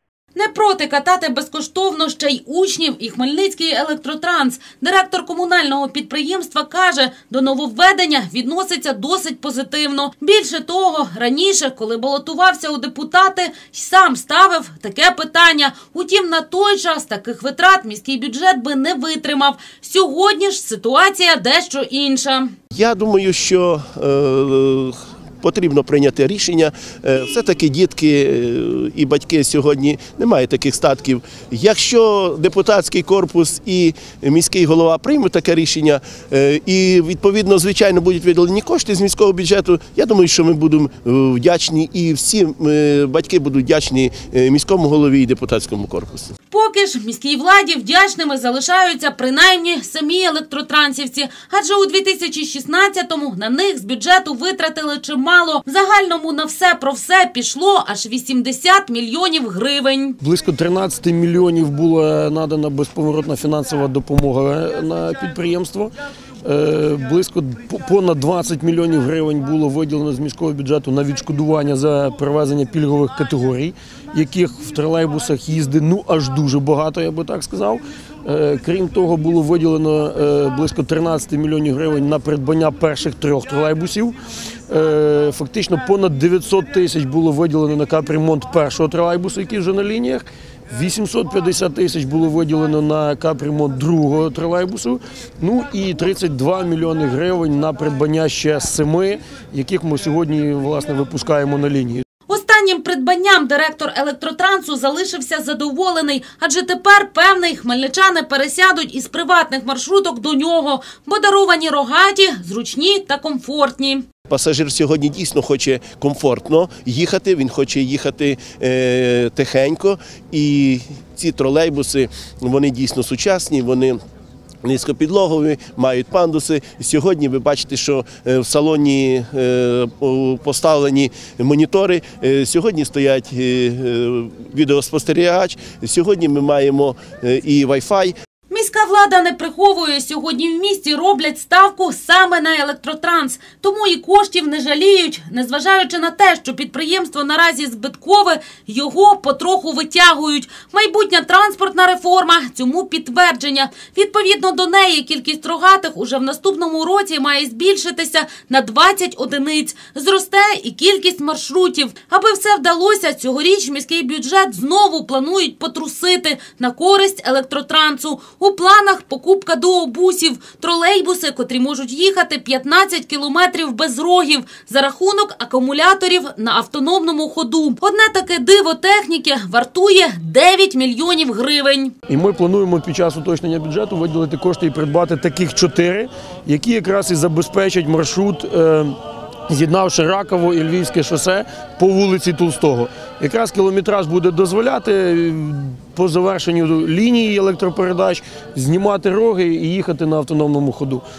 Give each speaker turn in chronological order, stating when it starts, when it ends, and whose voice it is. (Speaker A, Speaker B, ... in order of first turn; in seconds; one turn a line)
Speaker A: 0.3-22.5
Speaker B: 22.7-46.3
Speaker A: 46.5-60.2
Speaker C: 60.2-84.2
Speaker C: 84.7-102.0
Speaker A: 102.3-114.0
Speaker B: 114.3-124.0
Speaker B: 124.6-138.1
Speaker A: 138.5-181.9
Speaker C: 182.1-189.0
Speaker C: 189.5-201.0